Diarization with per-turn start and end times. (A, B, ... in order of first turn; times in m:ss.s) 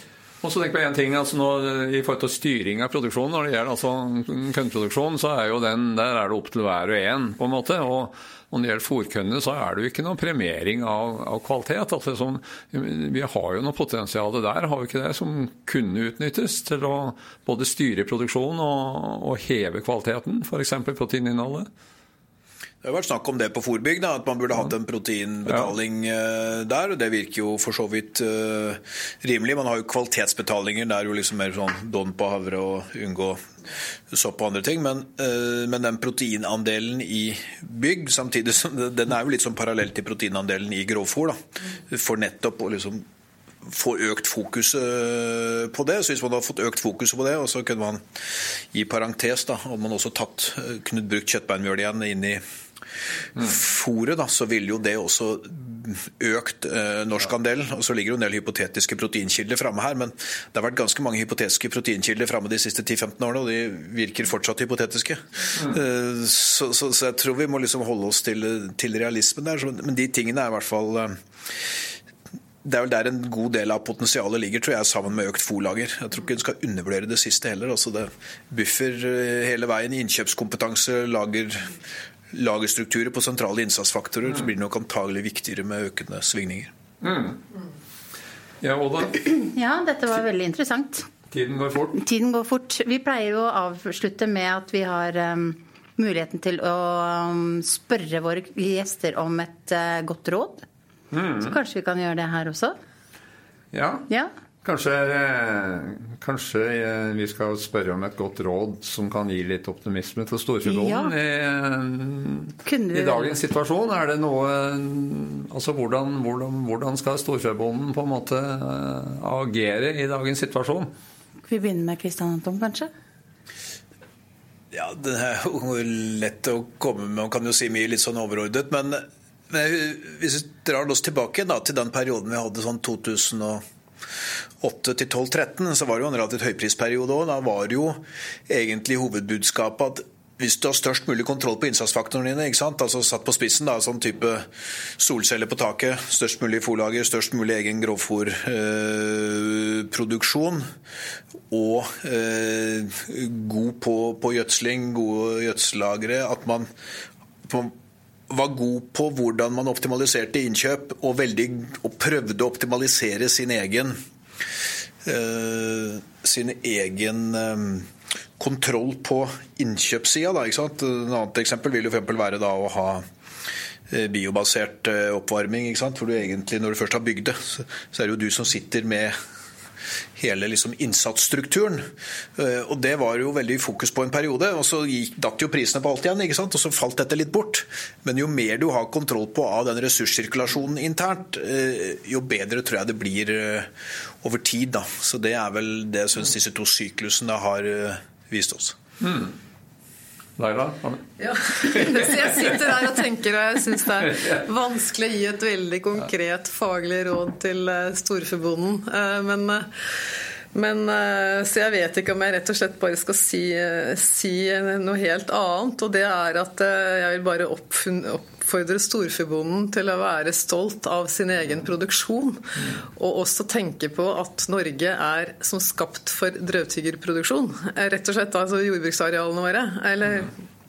0:00.4-0:21.7 A
0:22.8-0:33.4 B
0:34.1-0:43.0 B
0:43.6-0:52.4 B
0:53.4-1:11.6 B
1:12.6-1:21.7 B
1:22.3-1:26.7 B
1:27.0-1:27.4 A
1:28.6-1:29.2 A
1:29.2-1:31.1 C
1:31.3-1:32.0 A
1:32.0-1:40.7 C
1:41.1-1:41.6 A
1:41.4-1:42.8 C
1:43.7-1:44.1 A
1:44.6-2:00.9 A
1:50.7-1:51.1 C
1:52.6-1:53.4 C
2:01.5-2:02.9 C
2:04.7-2:13.6 B
2:14.6-2:24.4 B
2:25.0-2:30.6 B
2:31.5-2:36.7 B
2:37.4-2:37.7 B
2:38.3-2:43.9 B
2:45.0-2:53.0 B
2:53.9-2:59.1 B
3:00.2-3:01.8 B
3:02.4-3:13.7 B
3:14.2-3:18.8 B
3:19.0-3:19.3 A
3:20.4-3:22.8 A
3:21.2-3:29.7 D
3:24.1-3:24.4 A
3:30.5-3:50.3 D